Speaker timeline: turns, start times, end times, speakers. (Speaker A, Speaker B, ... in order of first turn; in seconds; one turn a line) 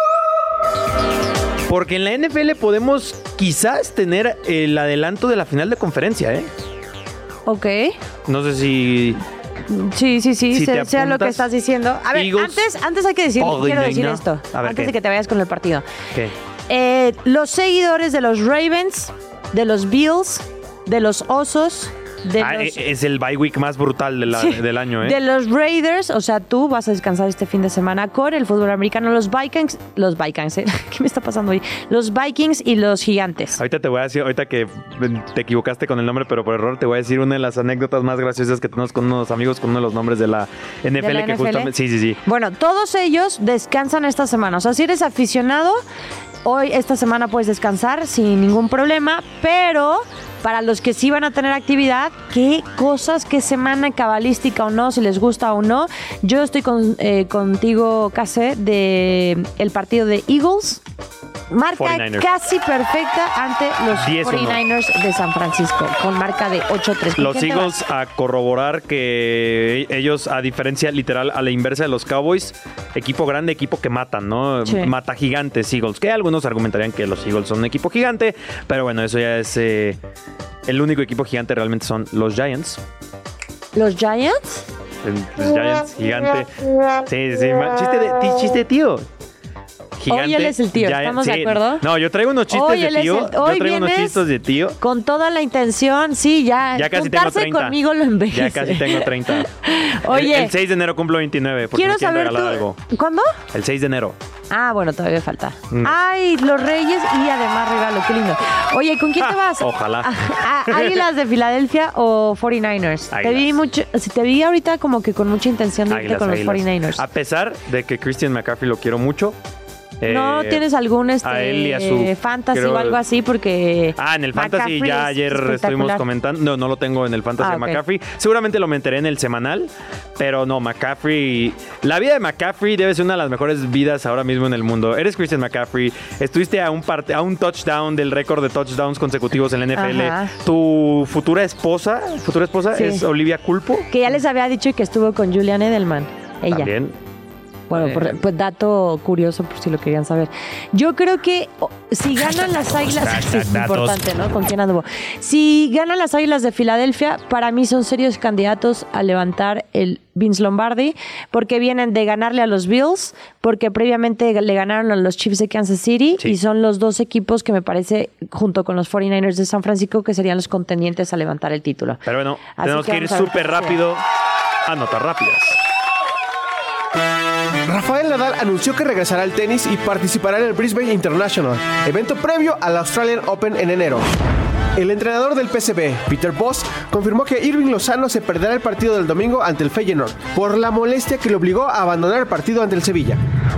Speaker A: 1.7-6.5
Speaker B: 7.5-8.0
Speaker A: 8.3-9.2
Speaker B: 9.7-15.8
Speaker A: 10.5-11.5
Speaker A: 12.1-12.7
Speaker A: 13.4-14.9
Speaker B: 16.7-22.8
Speaker A: 22.4-25.2
Speaker B: 24.3-33.6
Speaker A: 33.6-42.2
Speaker B: 41.0-41.7
Speaker B: 42.2-45.8
Speaker B: 46.5-60.8
Speaker B: 61.5-67.8
Speaker A: 61.8-62.3
Speaker A: 63.9-64.6
Speaker A: 67.2-80.0
Speaker B: 74.7-74.9
Speaker A: 80.7-82.8
Speaker B: 83.8-84.7
Speaker A: 85.0-86.5
Speaker A: 87.0-89.1
Speaker A: 90.0-94.8
Speaker B: 90.1-91.8
Speaker B: 92.5-94.2
Speaker B: 94.8-100.5
Speaker A: 96.8-99.5
Speaker A: 100.0-102.8
Speaker B: 101.7-103.3
Speaker A: 103.5-104.2
Speaker B: 104.5-117.0
Speaker A: 105.7-106.0
Speaker A: 109.2-111.0
Speaker A: 113.1-113.6
Speaker A: 115.9-119.4
Speaker A: 120.0-120.6
Speaker B: 120.0-126.0
Speaker A: 121.2-123.0
Speaker A: 124.0-143.9
Speaker B: 127.4-127.8
Speaker B: 139.8-140.3
Speaker B: 142.8-143.1
Speaker B: 143.9-146.7
Speaker A: 146.5-147.0
Speaker B: 147.7-172.0
Speaker A: 147.7-148.2
Speaker A: 152.4-154.0
Speaker A: 172.1-174.0
Speaker B: 172.6-173.8
Speaker A: 174.7-175.6
Speaker C: 177.6-184.1
Speaker C: 184.8-193.2